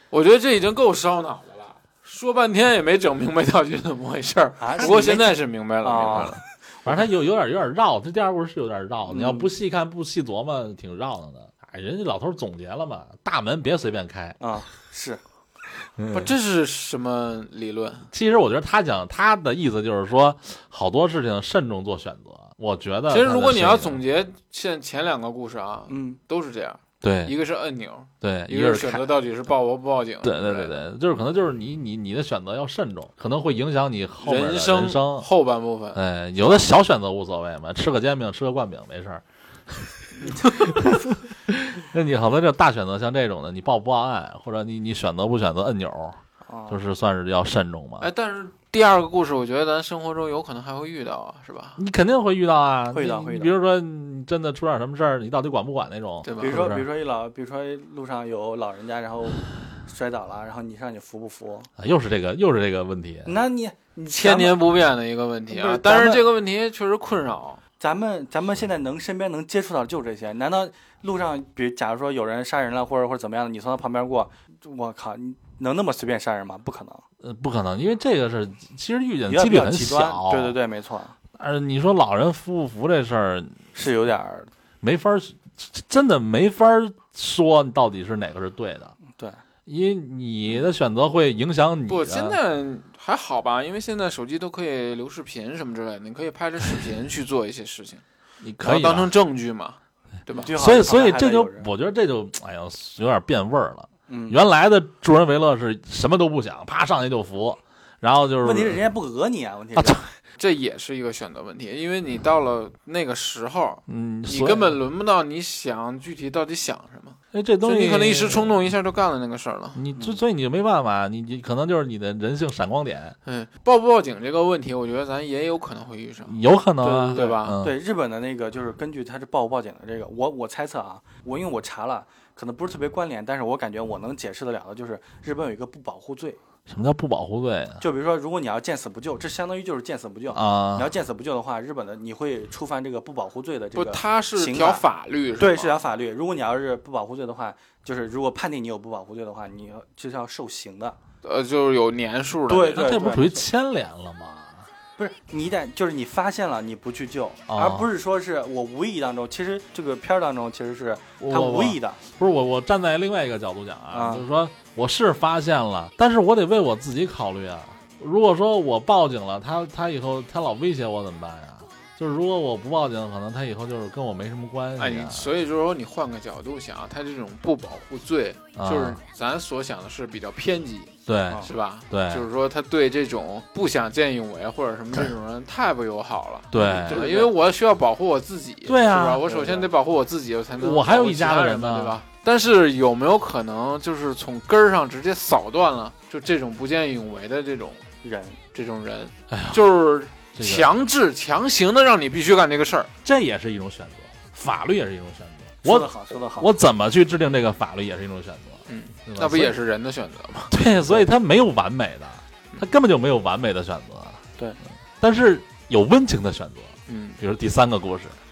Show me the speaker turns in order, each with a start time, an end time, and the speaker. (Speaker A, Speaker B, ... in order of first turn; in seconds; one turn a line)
Speaker A: 0.1-6.4
Speaker B: 4.6-7.0
Speaker C: 4.8-5.2
Speaker C: 6.8-14.4
Speaker B: 9.1-9.5
Speaker B: 14.4-15.2
Speaker C: 16.0-16.3
Speaker A: 16.1-18.1
Speaker C: 18.1-24.0
Speaker A: 23.1-30.8
Speaker B: 25.9-26.2
Speaker C: 27.0-27.4
Speaker C: 28.2-29.2
Speaker C: 30.2-35.3
Speaker A: 34.2-36.0
Speaker C: 35.9-48.1
Speaker B: 46.5-46.8
Speaker A: 48.0-51.8
Speaker C: 51.8-56.9
Speaker B: 52.9-53.5
Speaker A: 56.2-56.7
Speaker B: 56.4-61.7
Speaker C: 61.8-63.4
Speaker B: 63.2-64.6
Speaker A: 64.1-67.6
Speaker B: 65.5-66.3
Speaker B: 67.8-77.0
Speaker C: 77.2-80.6
Speaker B: 79.3-81.2
Speaker C: 81.3-83.6
Speaker B: 83.7-84.5
Speaker C: 84.8-89.0
Speaker B: 89.1-89.4
Speaker C: 89.7-92.4
Speaker A: 91.9-98.0
Speaker C: 98.4-99.1
Speaker A: 98.6-100.5
Speaker B: 100.4-101.7
Speaker C: 100.5-108.8
Speaker B: 104.1-104.4
Speaker B: 108.4-110.0
Speaker C: 109.8-110.1
Speaker A: 110.4-119.8
Speaker C: 113.9-114.8
Speaker C: 117.3-118.6
Speaker C: 119.8-123.2
Speaker A: 123.2-126.4
Speaker C: 126.2-127.8
Speaker B: 126.8-136.4
Speaker A: 127.1-127.6
Speaker C: 136.7-137.8
Speaker B: 137.8-144.8
Speaker C: 140.3-140.9
Speaker A: 143.8-145.7
Speaker B: 145.4-151.0
Speaker A: 151.2-153.0
Speaker B: 152.5-153.4
Speaker C: 152.8-154.7
Speaker B: 155.0-162.0
Speaker C: 157.5-157.9
Speaker C: 161.2-175.3
Speaker B: 163.9-164.3
Speaker A: 174.8-197.8
Speaker C: 178.6-179.0
Speaker C: 181.1-182.3
Speaker C: 186.5-187.2
Speaker B: 186.9-187.3
Speaker C: 188.7-189.3
Speaker B: 189.3-189.7
Speaker C: 190.6-192.0
Speaker B: 198.0-198.4
Speaker A: 198.5-202.9
Speaker C: 199.3-199.6
Speaker C: 200.3-200.7
Speaker C: 203.0-209.6
Speaker B: 205.6-206.5
Speaker A: 208.7-210.5
Speaker C: 210.5-214.2
Speaker C: 215.0-218.2
Speaker A: 216.9-217.2